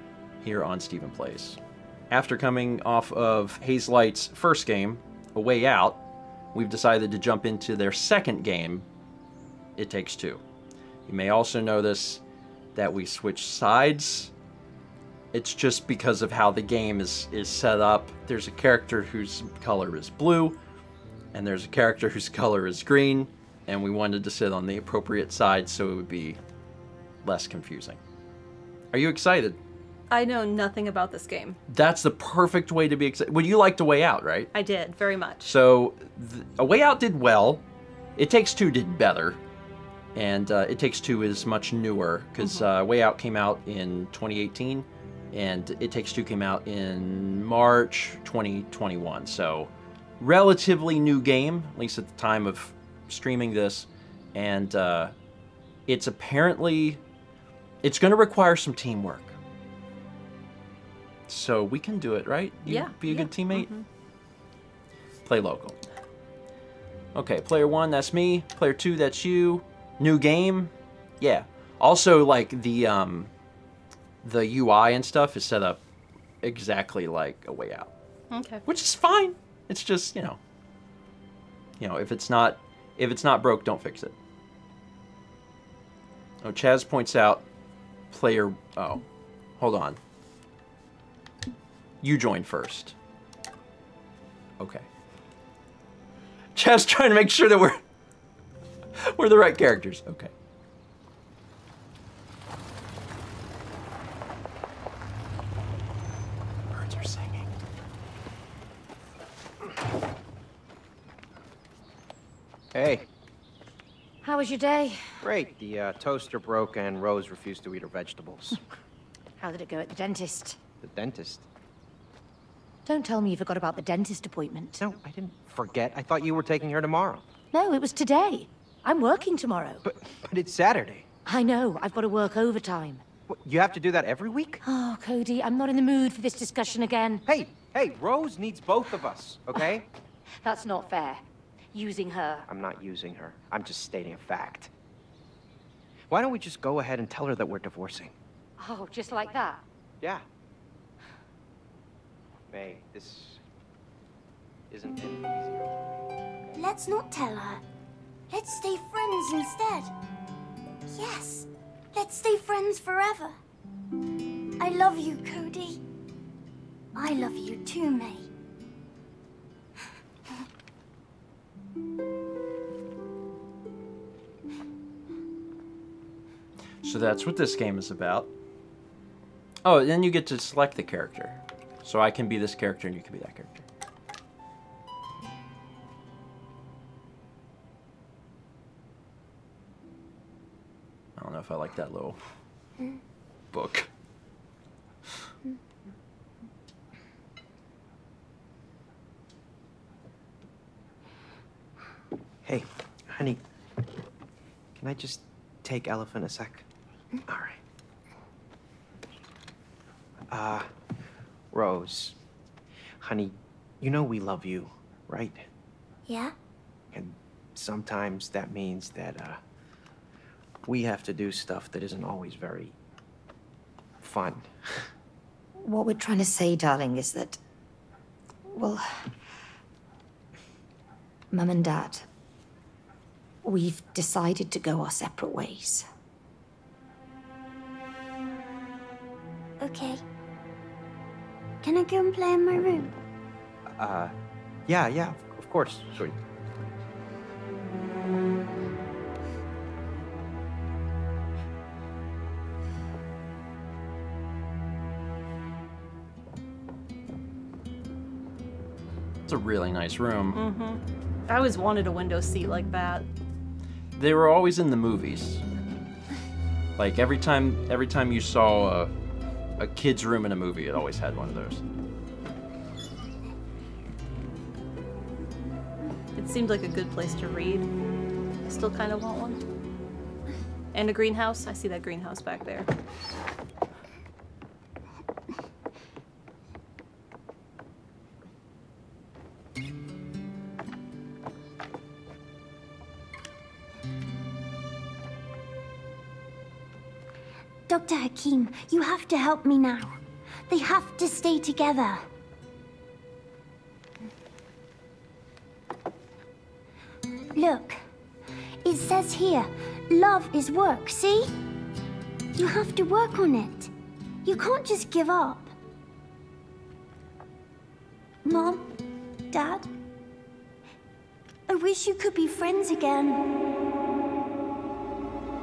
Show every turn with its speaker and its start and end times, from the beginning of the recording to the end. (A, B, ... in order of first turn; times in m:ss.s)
0:00.4-0:01.6 A
0:02.1-0:06.0 A
0:06.5-0:08.8 A
0:09.8-0:10.4 A
0:11.1-0:12.2 A
0:12.7-0:14.3 A
0:15.3-0:20.6 A
0:21.3-0:26.4 A
0:27.2-0:28.0 A
0:28.9-0:29.6 A
0:30.1-0:31.6 B
0:31.7-0:34.5 A
0:34.5-0:35.5 B
0:35.4-0:37.6 A
0:38.2-0:39.4 A
0:40.1-0:55.1 A
0:42.4-0:42.6 B
0:55.9-0:57.0 A
0:57.8-0:59.4 A
1:01.3-1:03.7 A
1:02.6-1:03.8 B
1:05.2-1:05.8 A
1:07.1-1:13.3 A
1:14.2-1:15.8 A
1:16.4-1:17.9 A
1:18.3-1:18.6 B
1:18.6-1:20.4 A
1:21.8-1:24.2 A
1:26.4-1:27.4 A
1:28.1-1:29.0 A
1:29.6-1:30.0 A
1:32.0-1:33.0 A
1:34.6-1:34.8 A
1:36.5-1:37.8 A
1:39.0-1:40.3 A
1:46.7-1:47.5 A
1:52.7-1:53.0 C
1:54.2-1:55.2 D
1:55.2-1:58.6 C
1:59.4-2:00.6 D
2:00.8-2:01.4 C
2:02.8-2:04.8 D
2:04.8-2:07.2 C
2:07.5-2:09.8 D
2:09.8-2:11.1 C
2:11.2-2:13.0 D
2:13.3-2:14.6 C
2:14.6-2:17.2 D
2:17.2-2:19.8 C
2:20.4-2:22.5 D
2:22.5-2:24.7 C
2:26.1-2:28.1 C
2:28.6-2:29.6 D
2:32.5-2:33.4 C
2:34.7-2:35.9 C
2:36.6-2:37.6 E
2:38.3-2:39.9 E
2:40.9-2:43.4 E
2:44.6-2:45.8 E
2:46.9-2:48.3 E
2:56.8-2:58.3 A
2:59.6-3:03.6 A
3:11.2-3:12.2 A
3:13.5-3:13.9 A
3:22.4-3:23.4 C
3:24.8-3:26.6 C
3:27.3-3:27.6 C
3:30.3-3:30.7 C
3:31.5-3:32.2 C
3:33.0-3:35.5 C
3:36.1-3:36.3 E
3:36.9-3:39.4 C
3:40.6-3:42.7 C
3:44.0-3:44.8 C
3:45.6-3:47.4 D
3:48.5-3:49.0 D
3:51.3-3:52.0 D
3:53.4-3:55.9 D
3:59.6-4:00.0 E
4:01.6-4:02.9 E
4:03.7-4:04.1 C
4:04.7-4:06.2 C
4:19.3-4:20.4 A
4:20.3-4:23.1 B
4:24.0-4:25.4 A
4:26.8-4:28.9 A
4:29.6-4:31.6 A
4:36.2-4:37.7 B
4:38.4-4:39.4 B
4:40.7-4:42.7 B
4:57.7-5:00.0 E
5:00.5-5:02.1 E
5:07.3-5:07.8 E
5:08.6-5:11.3 E
5:12.4-5:13.7 E
5:14.2-5:15.5 E
5:18.2-5:18.7 E
5:19.3-5:19.7 E
5:21.5-5:23.2 E